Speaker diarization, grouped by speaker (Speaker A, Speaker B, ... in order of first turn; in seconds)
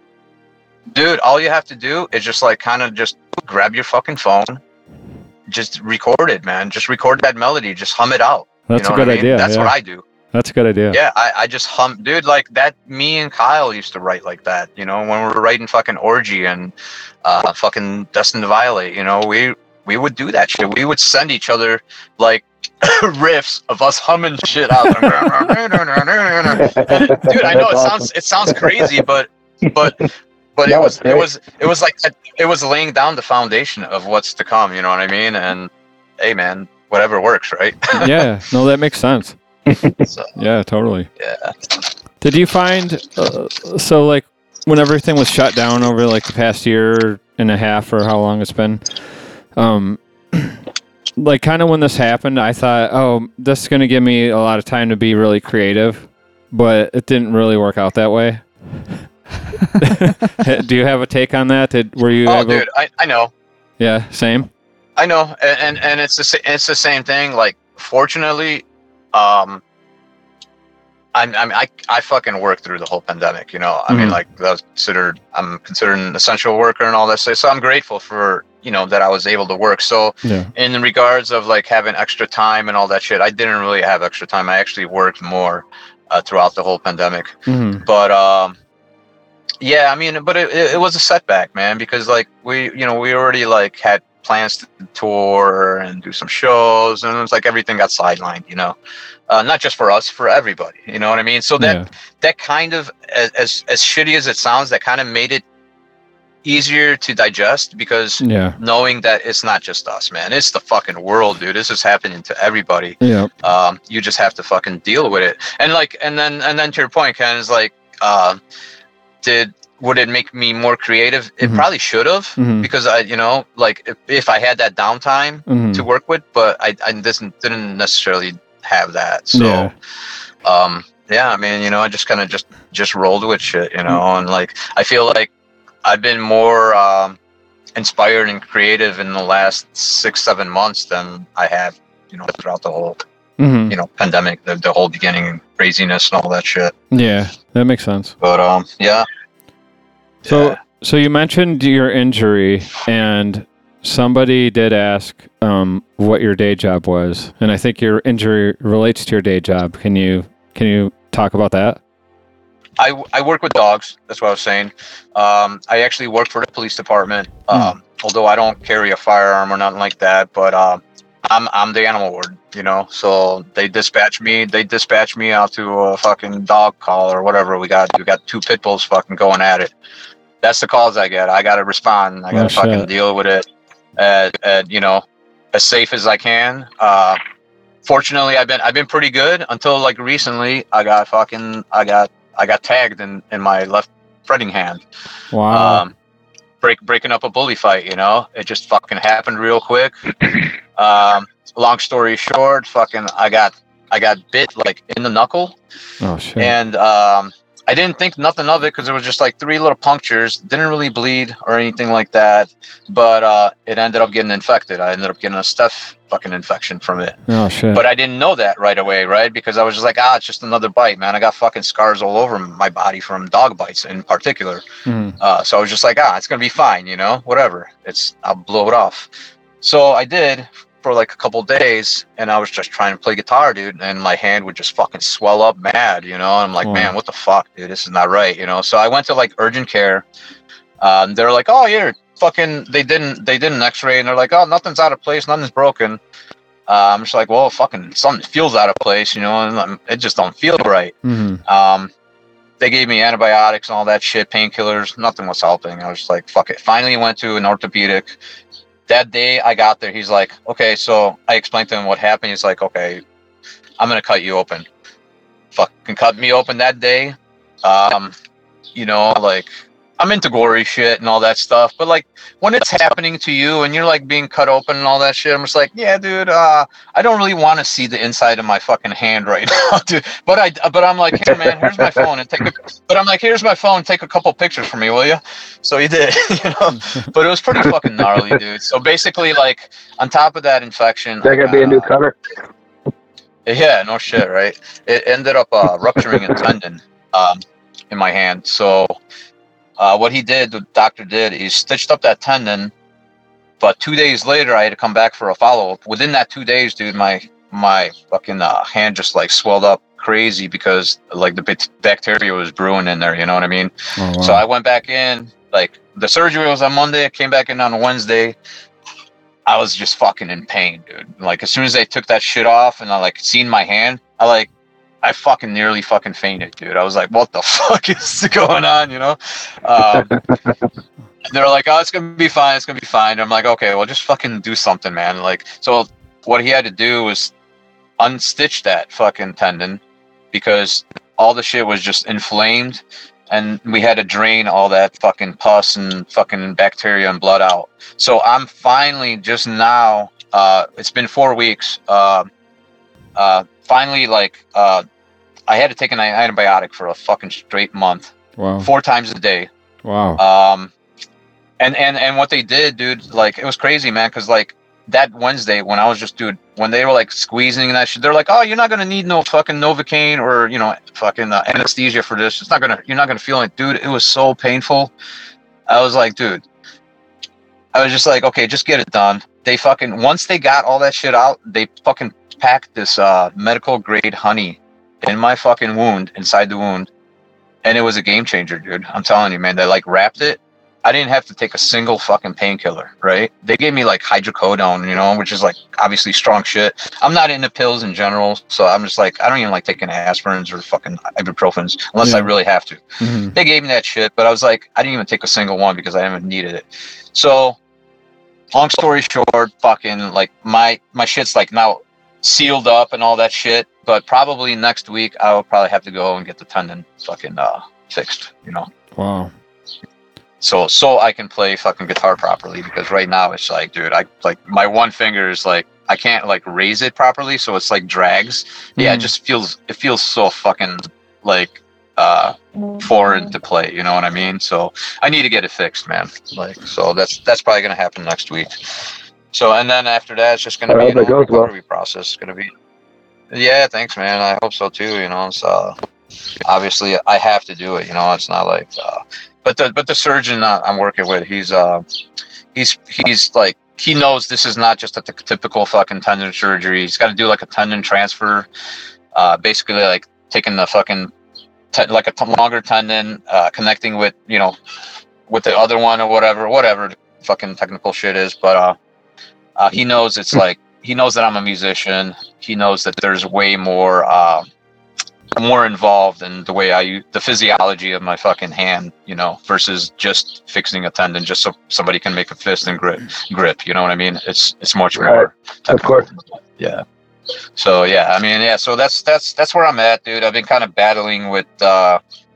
Speaker A: 0.9-4.6, 5.5-10.0, 10.9-38.2, 40.0-40.3, 41.2-41.5, 62.2-63.3, 65.0-69.6, 71.1-88.5, 89.6-98.8, 99.3-105.4, 106.4-118.4, 119.2-129.7, 130.4-135.3, 135.8-137.2, 137.8-143.0, 143.7-146.7, 148.2-149.1, 150.2-150.6, 162.8-179.7, 180.4-187.2, 187.8-194.8, 195.5-195.9, 196.6-199.9, 200.8-205.6, 206.4-217.2, 217.7-224.6, 225.2-240.1, 240.8-246.0, 246.7-251.9, 252.6-258.2, 258.9-263.0, 263.8-264.7, 265.5-268.1, 268.7-291.9, 293.4-299.0, 299.8-302.7, 303.6-318.4, 319.5-324.5, 325.0-330.1, 331.3-337.3, 338.0-339.8, 340.3-352.3, 353.1-354.8, 355.5-359.5, 360.2-360.7, 361.6-374.9, 375.7-376.4, 377.7-386.9, 387.6-407.6, 408.5-418.7, 420.4-442.5, 443.3-445.8, 446.4-451.8, 452.5-458.5, 459.1-461.1, 461.7-464.5, 465.3-468.8, 469.6-474.4, 475.3-486.8, 487.6-492.0
Speaker B: 8.7-9.7, 10.3-11.0, 38.0-39.4, 40.4-41.1, 42.2-50.6, 51.2-58.9, 59.8-62.6, 63.8-64.5, 73.9-74.2, 80.2-80.5, 87.5-87.8, 101.6-101.9, 108.2-108.6, 113.0-113.3, 122.4-122.7, 125.5-125.8, 129.3-129.7, 143.4-143.8, 146.9-148.1, 150.2-161.8, 182.3-182.9, 195.3-195.8, 206.0-206.5, 217.3-217.8, 224.8-225.2, 236.6-236.9, 251.0-251.4, 314.0-314.4, 358.4-358.7, 359.8-360.2, 402.0-402.3, 403.0-403.3, 418.9-419.3, 428.8-429.1
Speaker C: 26.4-28.9, 30.7-31.2, 39.7-39.9, 281.4-281.9, 291.2-292.1, 330.0-330.6, 440.7-441.5, 485.0-486.1